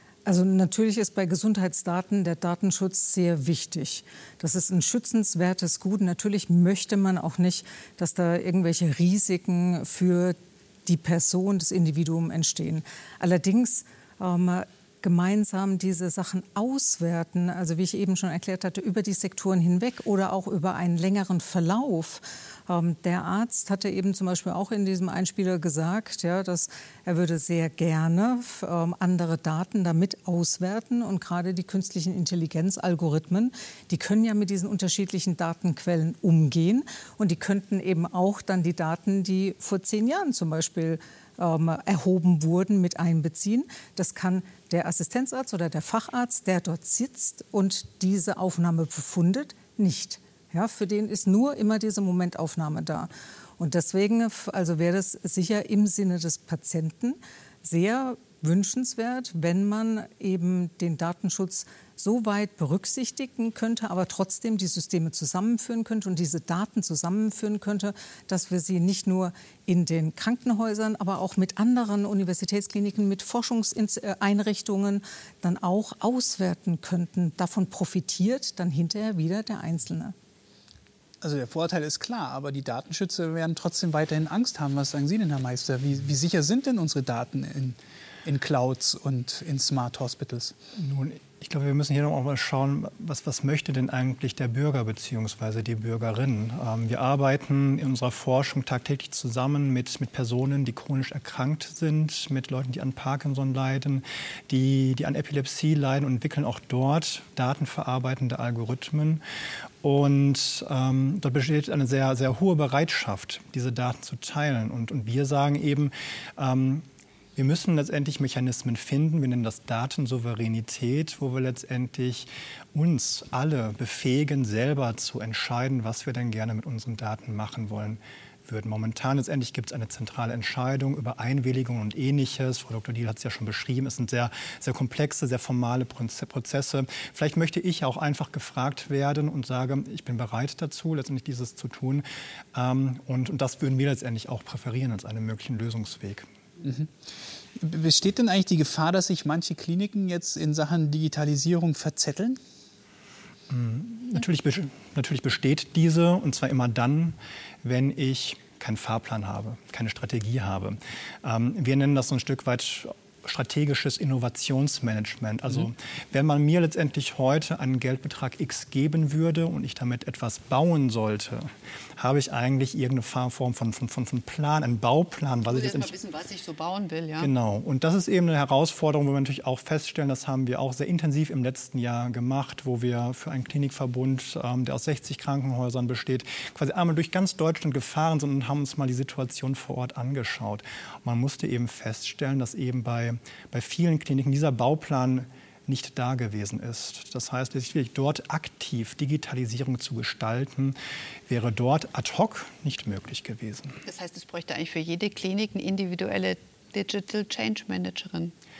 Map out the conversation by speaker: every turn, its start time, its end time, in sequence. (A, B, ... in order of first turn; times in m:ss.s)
0:00.3-1:20.1 A
1:21.2-1:30.5 B
1:30.8-1:49.2 C
1:49.8-2:26.3 C
2:26.6-2:26.9 B
2:27.6-2:32.4 B
2:33.5-2:56.0 C
2:55.5-2:57.3 D
2:57.2-3:20.8 C
3:21.3-3:23.8 C
3:23.8-3:28.3 D